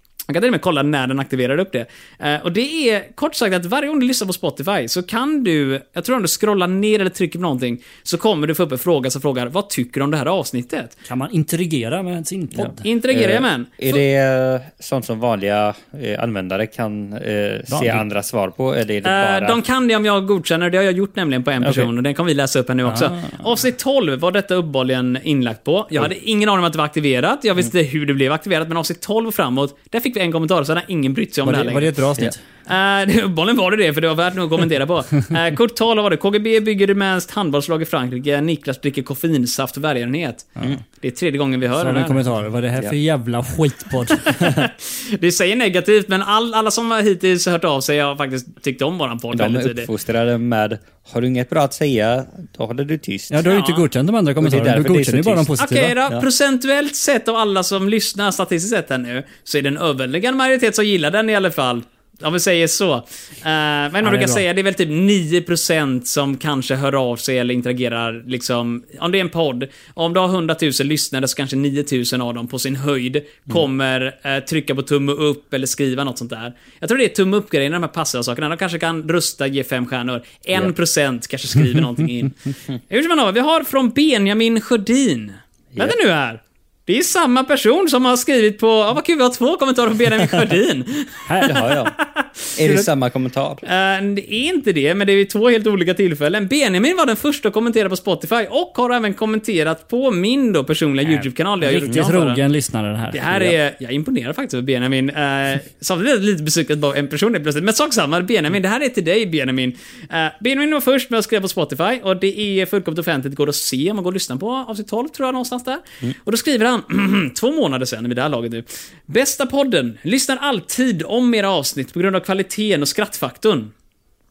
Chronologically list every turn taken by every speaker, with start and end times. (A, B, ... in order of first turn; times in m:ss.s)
0:00.3-0:10.9 A
0:11.0-0:12.8 B
0:12.6-0:19.6 C
0:12.8-0:14.0 A
0:17.7-0:18.0 B
0:19.0-0:31.9 A
0:21.6-0:21.9 C
0:22.9-0:23.4 B
0:31.4-0:32.4 B
0:32.7-0:42.2 A
0:41.8-0:44.4 B
0:44.2-0:49.9 A
0:49.3-0:53.4 C
0:53.3-0:56.0 B
0:53.4-0:53.8 A
0:54.4-0:55.5 C
0:55.6-1:22.4 A
1:04.0-1:04.4 B
1:22.9-1:32.9 A
1:31.2-1:31.6 B
1:31.4-1:31.9 C
1:32.6-1:33.6 C
1:33.6-1:42.4 A
1:41.0-1:43.5 B
1:43.1-2:03.7 A